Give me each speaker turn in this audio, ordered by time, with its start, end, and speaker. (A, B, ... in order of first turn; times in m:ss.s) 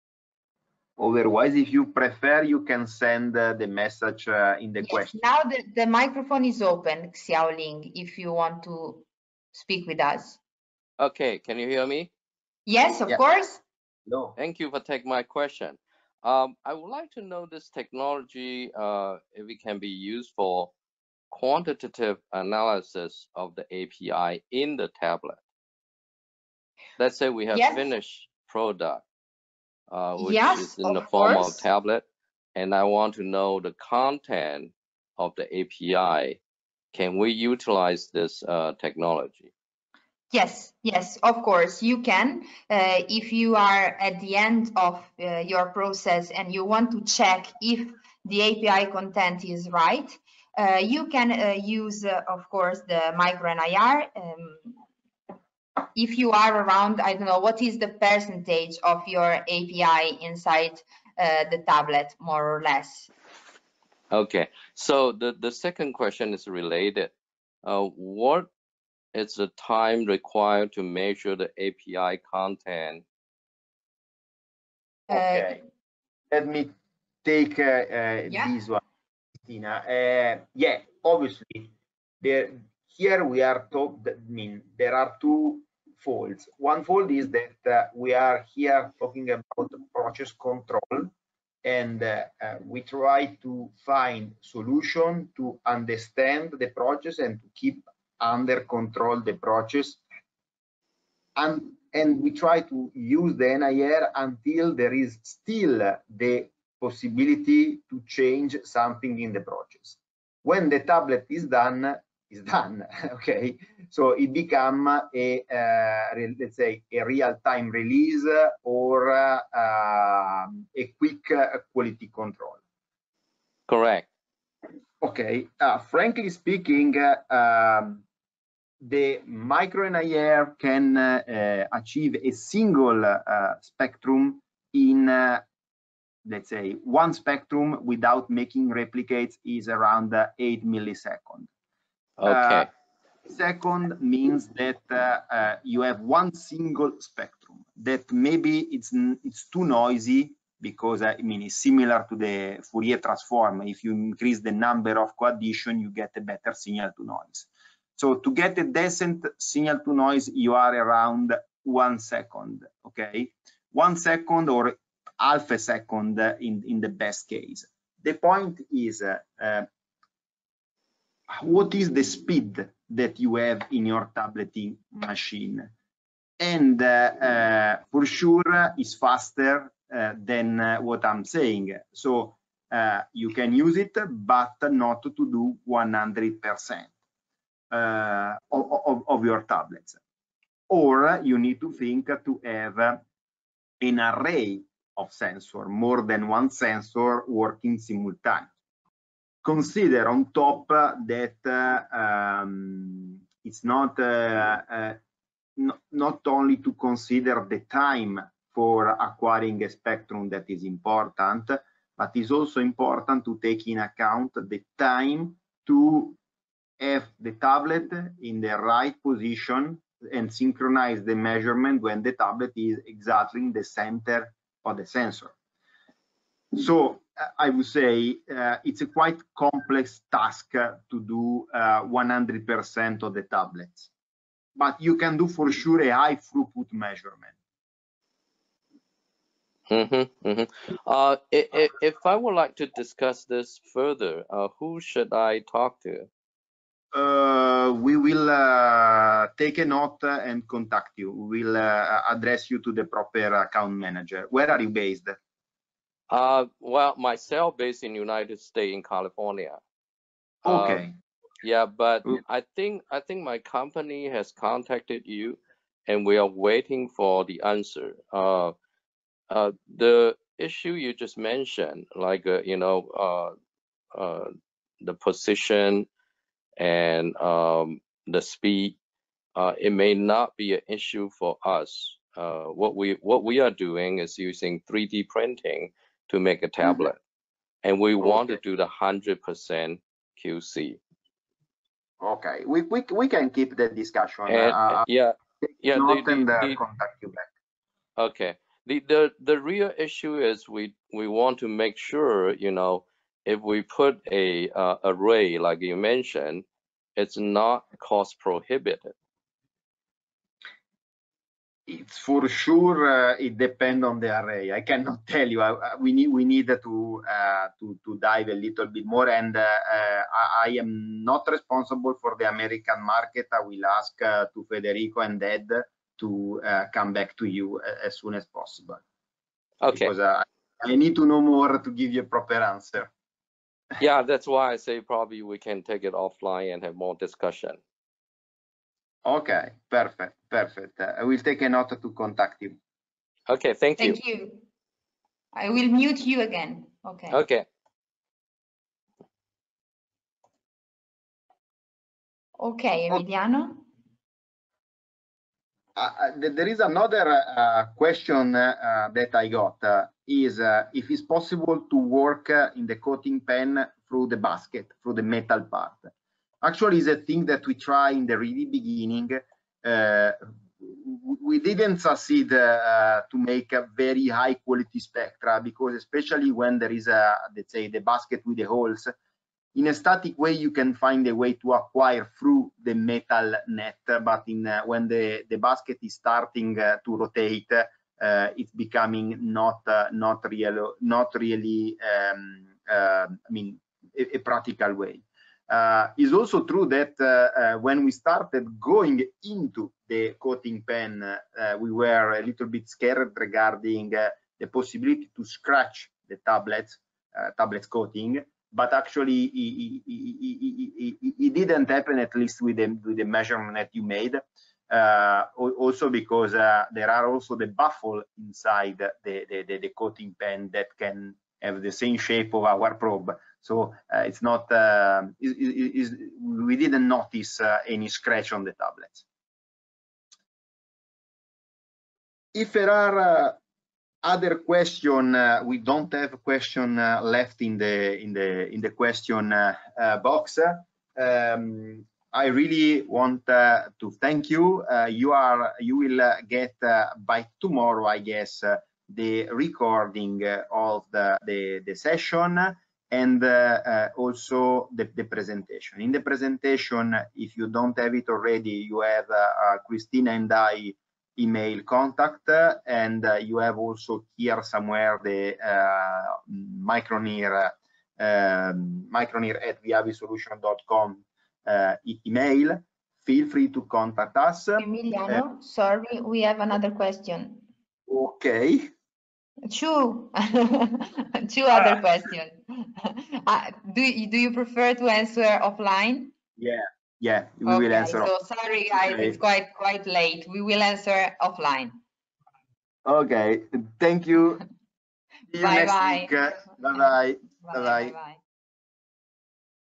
0:01.0-0:05.2 A
0:04.8-0:10.4 B
0:11.0-0:12.1 C
0:12.7-0:13.6 B
0:14.1-0:14.4 A
0:14.4-0:20.7 C
0:21.3-0:25.4 C
0:27.0-0:29.0 C
0:27.5-0:27.8 B
0:29.9-0:32.0 C
0:30.2-0:31.7 B
0:32.6-0:36.4 C
0:36.9-0:39.5 C
0:40.3-0:54.8 B
0:56.0-1:03.1 B
1:04.1-1:07.1 C
1:07.6-1:08.5 C
1:09.1-1:13.0 C
1:15.1-1:15.6 B
1:15.1-1:15.6 A
1:16.3-1:16.7 A
1:17.2-1:18.8 A
1:19.5-1:31.1 A
1:31.6-1:40.0 A
1:41.4-2:02.6 A
2:03.7-2:04.1 C
2:05.0-2:08.0 A
2:08.8-2:15.4 A
2:16.2-2:21.5 A
2:22.2-2:22.7 C
2:22.2-2:22.7 A
2:23.3-2:49.7 A
2:51.3-2:55.7 A
2:56.4-3:06.9 A
3:07.7-3:10.0 A
3:10.7-3:13.0 A
3:13.8-3:18.5 A
3:19.4-3:25.0 A
3:25.6-3:36.2 A
3:36.8-3:45.3 A
3:46.5-3:53.9 A
3:54.6-3:57.3 A
3:59.7-4:06.1 C
4:06.9-4:15.2 A
4:16.1-4:19.6 C
4:20.4-4:21.0 A
4:20.5-4:20.8 C
4:21.4-4:28.5 C
4:29.3-4:33.4 C
4:33.9-4:34.3 C
4:34.8-4:35.9 C
4:36.6-4:38.8 C
4:39.4-4:47.0 C
4:47.6-4:50.8 C
4:48.0-4:48.4 A
4:52.0-4:54.8 A
4:54.3-4:56.6 C
4:55.4-4:57.3 A
4:58.0-5:06.4 C
5:07.0-5:09.0 C
5:11.7-5:28.8 A
5:29.6-5:29.9 C
5:29.7-5:32.9 A
5:33.8-5:37.6 C
5:39.0-5:42.6 A
5:43.3-5:44.0 C
5:43.8-5:44.5 B
5:45.3-5:47.2 B
5:47.1-5:47.4 C
5:52.4-5:53.6 B
5:55.8-6:18.9 A
6:19.6-7:09.0 A
7:12.3-7:13.4 A
7:14.0-7:55.2 A
7:54.6-7:57.4 B
7:57.9-7:58.7 A
7:59.5-8:06.1 B
8:06.4-8:08.1 A
8:07.5-8:11.8 B
8:08.8-8:09.2 A
8:12.8-8:14.4 A
8:15.3-8:17.9 A
8:15.4-8:16.9 B
8:17.4-8:18.2 B